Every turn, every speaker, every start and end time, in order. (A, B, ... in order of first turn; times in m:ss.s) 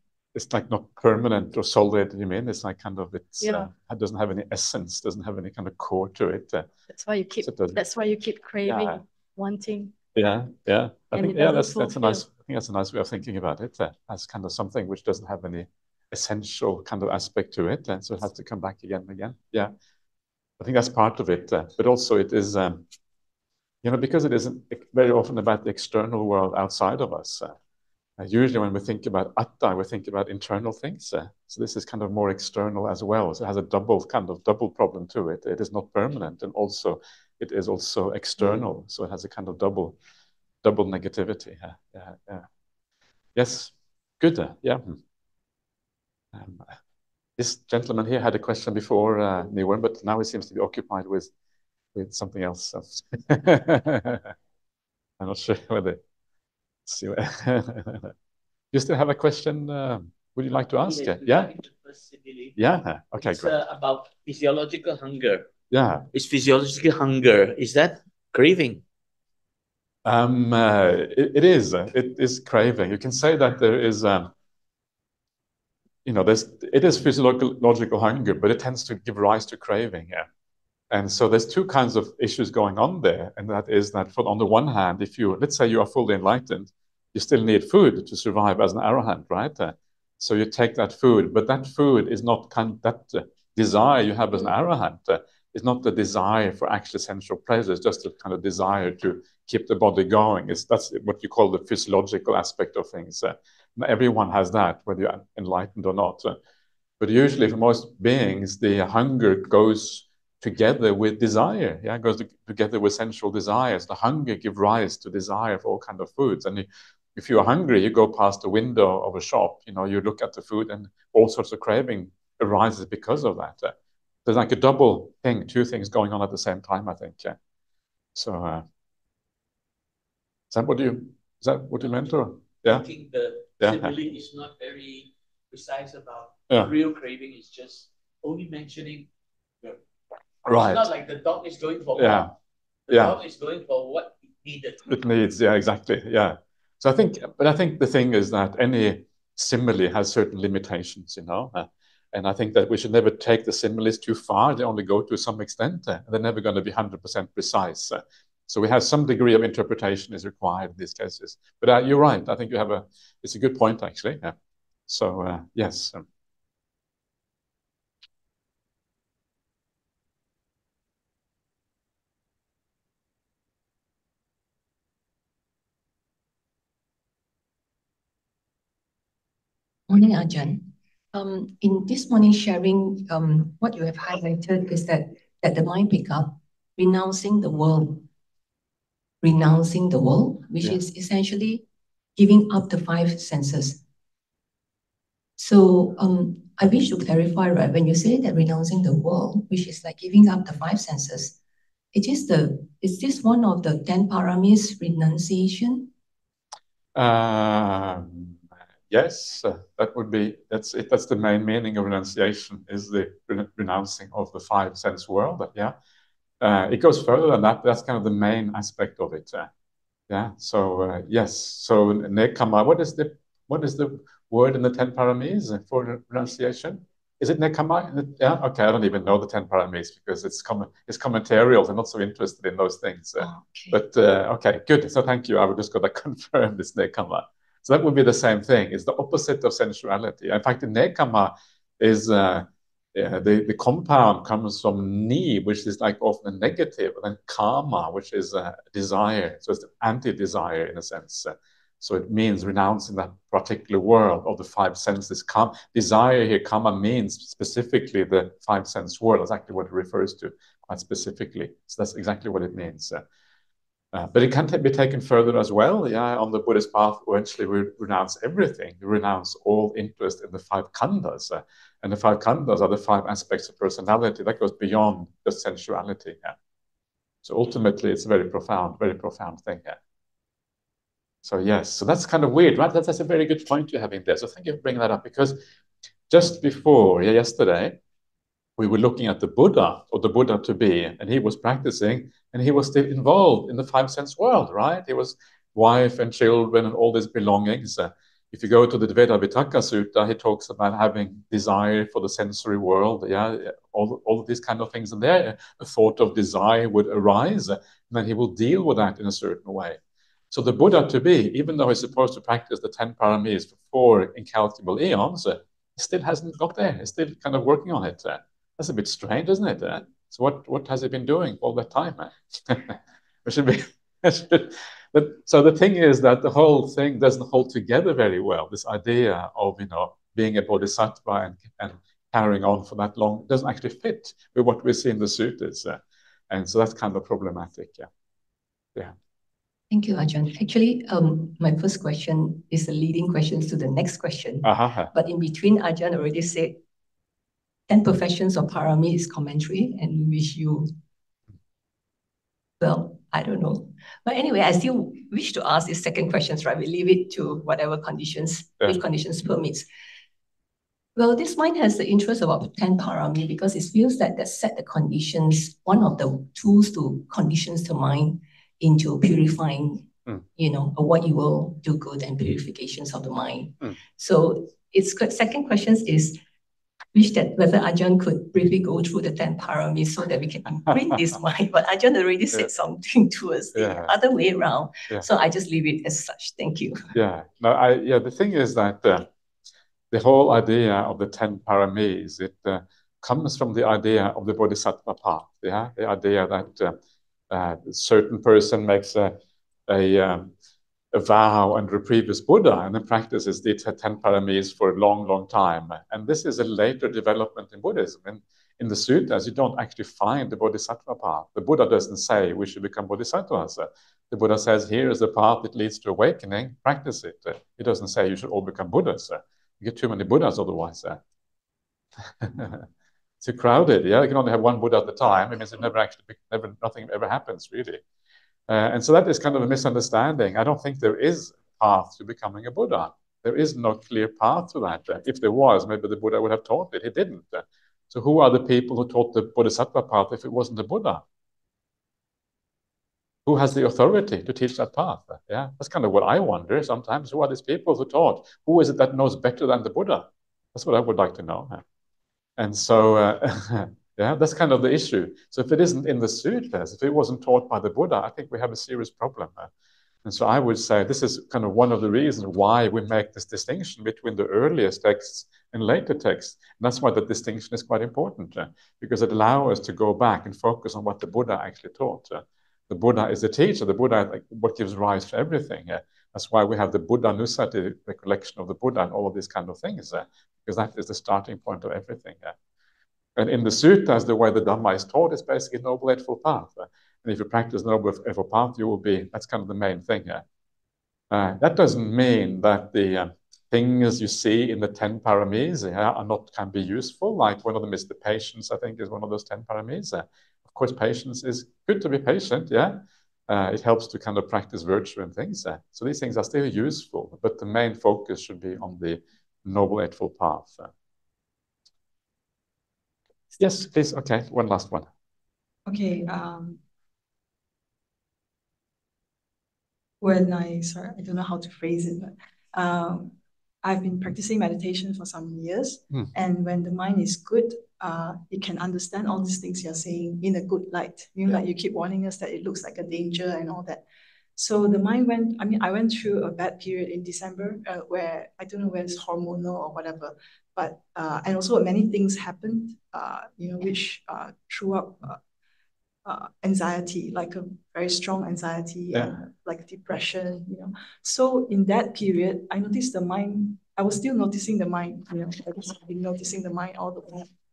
0:00.4-0:06.7 A
0:03.4-0:03.7 B
0:06.9-0:09.9 B
0:07.4-0:07.8 A
0:08.6-0:09.0 A
0:10.2-0:19.7 A
0:11.1-0:12.2 B
0:20.6-0:22.8 A
0:23.8-0:27.5 A
0:28.2-0:40.0 A
0:40.6-0:42.5 A
0:43.4-0:45.0 A
0:46.3-0:46.7 A
0:47.4-0:51.3 A
0:52.0-0:54.3 A
0:55.2-0:56.0 A
0:56.9-0:58.1 A
0:58.7-1:01.5 A
1:00.8-1:02.6 C
1:02.6-1:03.5 A
1:03.2-1:05.5 C
1:05.7-1:06.1 A
1:06.1-1:08.8 C
1:10.0-1:14.3 A
1:16.0-1:20.3 A
1:20.9-1:46.4 A
1:47.0-2:07.4 A
2:08.2-2:08.6 A
2:10.5-2:12.9 A
2:12.6-2:19.1 C
2:13.6-2:13.9 A
2:20.4-2:20.9 A
2:20.5-2:22.3 C
2:22.0-2:22.3 A
2:22.9-2:24.9 C
2:22.9-2:23.2 A
2:24.9-2:44.4 A
2:44.9-2:46.0 A
2:59.9-3:08.1 D
3:09.2-3:11.6 D
3:12.2-3:13.8 D
3:15.4-3:21.4 D
3:21.9-3:25.9 D
3:27.0-3:35.8 A
3:36.4-3:39.5 A
3:40.1-4:23.0 A
3:53.2-3:53.8 D
4:23.9-4:36.4 A
4:37.2-4:39.8 A
4:41.2-4:45.4 A
4:46.1-4:47.8 A
4:48.6-5:09.8 A
5:10.3-5:37.9 A
5:39.7-5:46.6 D
5:44.4-5:44.9 A
5:47.7-5:50.8 D
5:52.6-5:59.7 D
6:01.0-6:16.2 D
6:16.9-6:27.0 D
6:23.5-6:24.0 A
6:26.9-6:29.1 A
6:29.9-6:36.8 A
6:37.3-6:39.2 A
6:39.7-6:40.3 A
6:40.9-7:01.0 A
7:02.2-7:02.7 A
7:03.2-7:07.8 A
7:08.5-7:21.0 A
7:23.3-7:31.6 A
7:32.4-7:39.5 A
7:40.0-8:02.4 A
8:03.2-8:10.2 A
8:11.1-8:30.7 A
8:33.4-8:34.9 A
8:35.7-8:36.6 E
8:40.0-8:53.8 E
8:54.4-9:05.2 E
9:06.0-9:17.3 E